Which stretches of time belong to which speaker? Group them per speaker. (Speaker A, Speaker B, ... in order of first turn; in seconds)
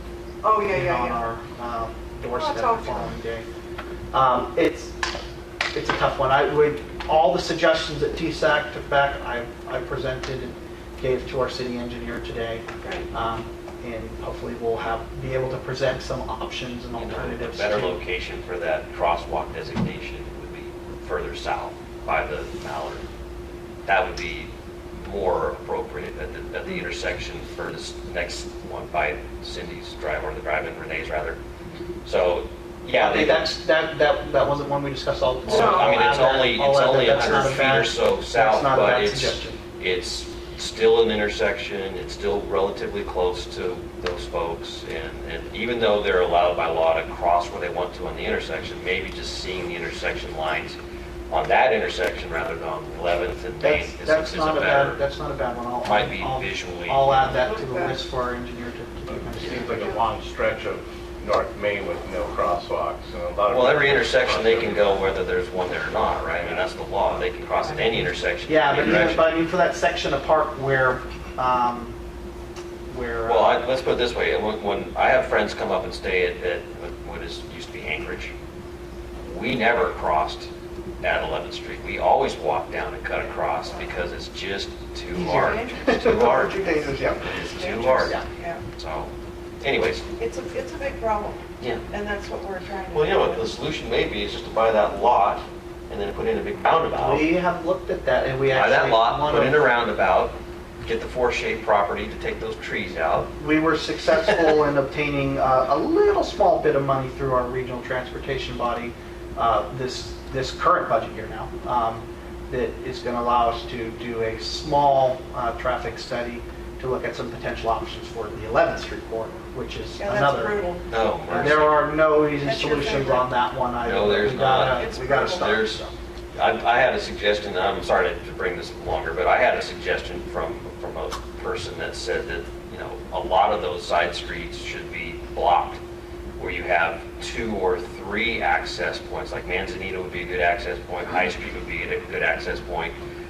Speaker A: 0.4-1.2, 2.4-3.1, 12.8-13.1, 35.5-36.0, 57.3-58.0, 85.3-88.6, 90.2-93.5, 120.0-120.9, 122.4-123.3, 124.7-125.5
Speaker B: 0.7-3.5, 4.1-5.0, 5.7-18.0, 33.0-39.6, 53.6-60.0, 68.5-72.0, 72.9-73.6, 85.2-87.2, 96.9-99.8, 103.4-120.6, 121.3-125.9
Speaker C: 16.9-23.1, 23.9-31.4, 32.0-33.5, 35.5-50.8, 51.3-55.0, 55.9-57.3, 63.5-69.2, 73.2-78.3, 79.2-80.5, 81.0-86.6, 87.2-88.2, 88.8-90.1, 92.9-97.3, 98.5-103.3, 120.9-121.8, 123.8-125.8, 126.3-135.8, 136.4-142.9
Speaker D: 59.1-65.0